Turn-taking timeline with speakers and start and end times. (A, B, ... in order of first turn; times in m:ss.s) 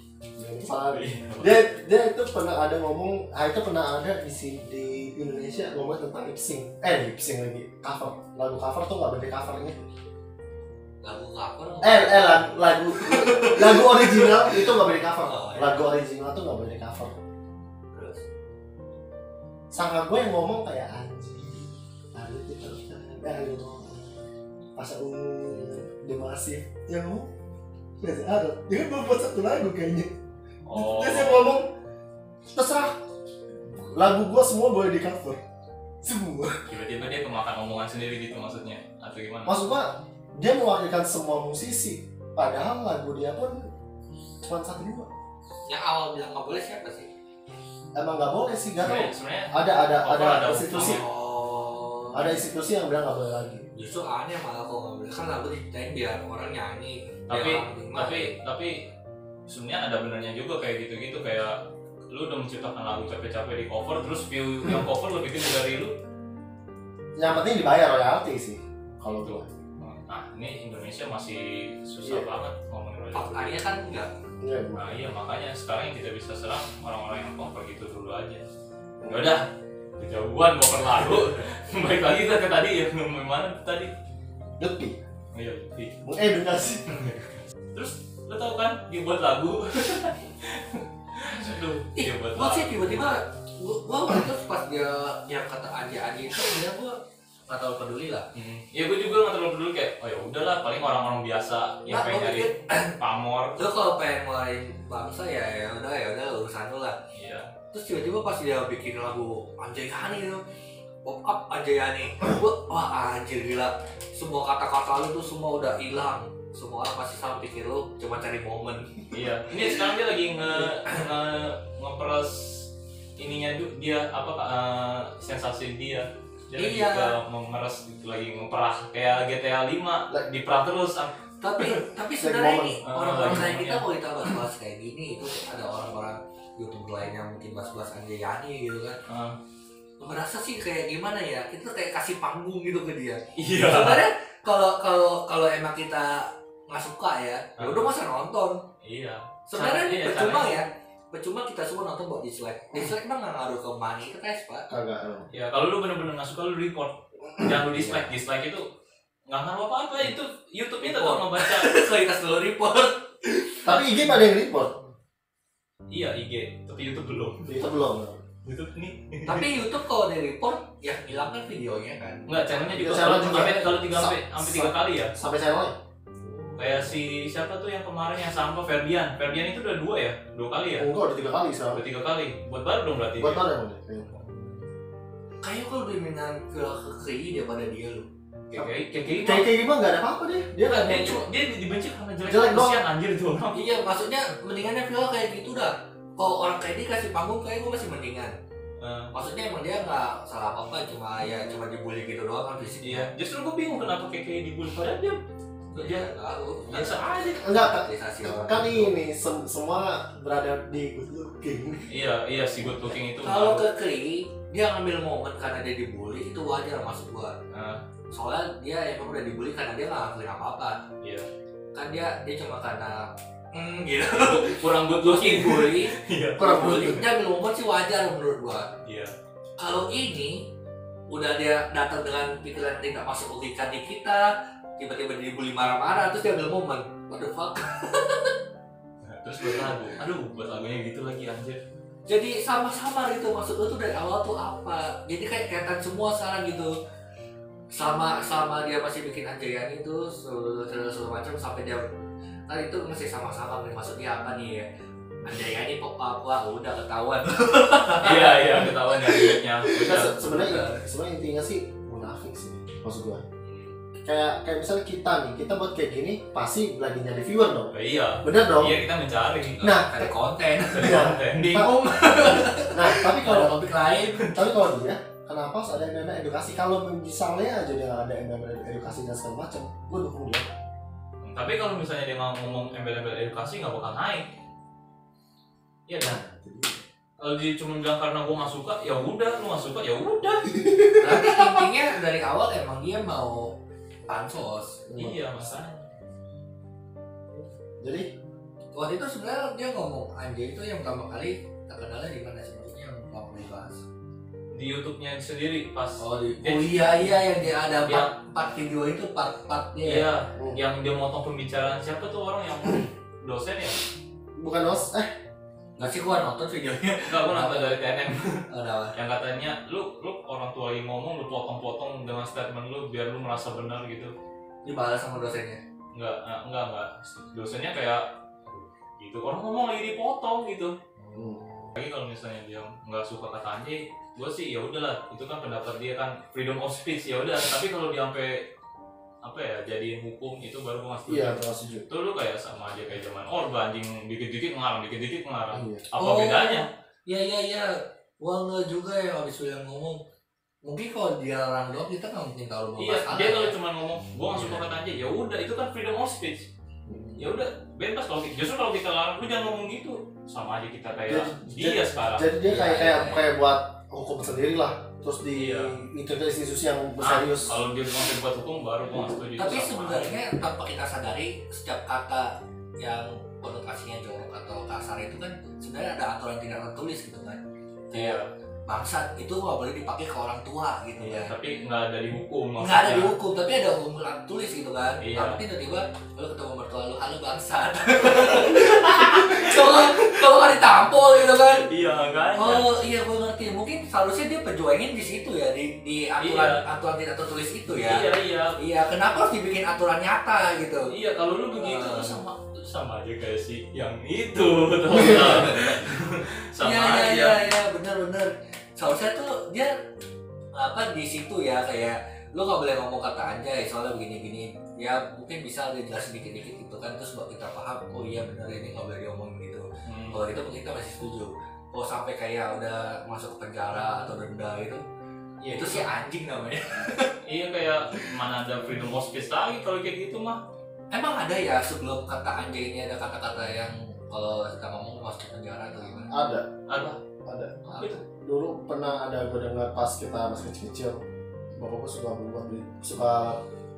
0:00.4-0:09.8 A
0:00.9-0:01.6 B
0:11.0-0:14.7 C
0:11.8-0:17.2 A
0:15.2-0:15.8 C
0:17.9-0:18.2 C
0:19.7-0:24.2 A
0:24.8-0:27.3 A
0:28.0-0:30.1 A
0:30.6-0:31.5 B
0:30.7-0:31.7 A
0:32.5-0:33.0 A
0:33.6-0:35.4 A
0:36.0-0:36.6 A
0:36.7-0:39.6 B
0:39.4-0:43.7 A
0:44.4-0:45.1 A
0:45.7-0:47.1 C
0:47.9-0:51.0 A
0:48.8-0:51.0 B
0:50.7-0:52.4 C
0:52.1-0:53.7 A
0:53.7-0:58.4 C
0:57.3-0:58.8 B
0:59.5-1:05.9 B
1:07.2-1:09.5 A
1:09.2-1:13.5 B
1:13.1-1:14.1 C
1:14.4-1:14.9 A
1:14.8-1:18.4 B
1:19.0-1:19.4 A
1:19.1-1:19.4 B
1:20.0-1:23.9 B
1:24.6-1:25.0 A
1:25.3-1:26.0 B
1:26.0-1:27.1 A
1:26.9-1:33.2 B
1:31.9-1:37.0 C
1:37.5-1:38.2 C
1:38.3-1:43.6 B
1:41.9-1:43.0 C
1:43.6-1:47.0 C
1:47.1-1:47.5 B
1:47.7-1:50.4 C
1:51.0-1:59.1 C
1:59.1-2:11.8 B
2:06.5-2:07.1 C
2:11.4-2:19.0 C
2:12.2-2:12.8 A
2:12.8-2:13.8 B
2:19.1-2:19.4 B
2:20.0-2:28.6 C
2:23.4-2:24.0 B
2:27.6-2:27.9 B
2:28.8-2:30.6 B
2:29.5-2:34.7 C
2:34.7-2:35.3 A
2:35.3-2:38.6 B
2:39.3-2:41.7 B
2:40.8-2:43.8 C
2:43.6-2:44.8 A
2:45.9-2:47.5 B
2:47.4-2:48.2 A
2:48.4-2:49.5 B
2:49.2-2:53.6 C
2:52.3-2:55.1 B
2:52.7-2:55.7 A
2:56.2-2:56.9 C
2:56.6-3:00.9 B
3:00.8-3:01.8 A
3:01.7-3:03.4 B
3:03.2-3:04.1 A
3:05.4-3:08.1 C
3:08.5-3:09.5 B
3:08.5-3:11.2 A
3:10.6-3:13.6 B
3:12.2-3:12.8 A
3:13.5-3:18.3 C
3:18.8-3:19.1 B
3:19.1-3:23.1 C
3:22.8-3:25.2 B
3:25.7-3:28.9 C
3:25.8-3:26.1 B
3:26.7-3:27.6 B
3:27.4-3:31.9 A
3:31.9-3:33.6 B
3:33.2-3:37.3 C
3:37.5-3:37.8 B
3:38.1-3:40.8 C
3:41.0-3:41.3 B
3:41.7-3:48.7 C
3:44.1-3:47.0 B
3:48.8-3:49.1 B
3:49.6-3:50.4 C
3:51.1-3:58.4 C
3:59.0-4:01.6 B
3:59.4-3:59.7 C
4:02.1-4:06.7 C
4:07.7-4:11.9 C
4:12.5-4:14.6 C
4:15.2-4:20.8 C
4:18.0-4:20.3 B
4:19.8-4:23.2 A
4:24.0-4:28.8 A
4:27.7-4:29.6 B
4:29.6-4:34.4 C
4:29.6-4:30.1 A
4:30.7-4:31.7 B
4:30.7-4:33.6 A
4:34.3-4:40.4 A
4:41.2-4:44.3 B
4:45.9-4:46.2 B
4:46.0-4:46.8 A
4:47.2-4:50.5 B
4:51.0-4:53.5 C
4:54.1-4:54.8 C
4:54.9-4:55.2 A
4:55.0-4:55.8 B
4:57.8-4:58.1 A
4:58.7-5:03.8 C
5:04.5-5:07.2 B
5:06.0-5:10.1 C
5:09.8-5:13.8 B
5:14.4-5:15.1 A
5:15.8-5:17.8 C
5:17.1-5:24.1 B
5:18.5-5:19.0 C
5:24.6-5:25.6 C
5:25.9-5:30.8 B
5:31.0-5:31.7 C
5:31.1-5:31.4 A
5:31.7-5:38.4 B
5:39.2-5:46.6 B
5:41.1-5:41.9 A
5:45.5-5:45.8 A
5:46.0-5:50.0 C
5:50.6-5:53.5 C
5:52.8-5:56.5 B
5:54.3-5:54.6 C
5:56.9-5:57.2 C
5:57.2-6:02.3 B
6:01.1-6:07.5 A
6:02.4-6:03.3 C
6:05.3-6:05.7 B
6:07.0-6:10.2 B
6:09.4-6:21.3 C
6:17.9-6:18.3 B
6:21.0-6:23.1 B
6:22.6-6:31.7 C
6:25.0-6:25.4 B
6:28.3-6:30.0 B
6:31.5-6:32.8 B
6:32.4-6:38.0 C
6:36.2-6:36.6 B
6:37.8-6:38.6 B
6:38.6-6:40.9 C
6:40.9-6:47.4 B
6:41.5-6:42.2 C
6:44.9-6:45.9 C
6:46.6-6:49.8 C
6:50.5-7:04.8 C
6:59.8-7:00.3 B
7:05.4-7:05.9 B
7:05.4-7:07.2 C
7:07.2-7:10.4 B
7:10.9-7:16.1 C
7:16.1-7:16.5 A
7:16.7-7:17.0 B
7:17.2-7:23.4 A
7:17.7-7:18.0 B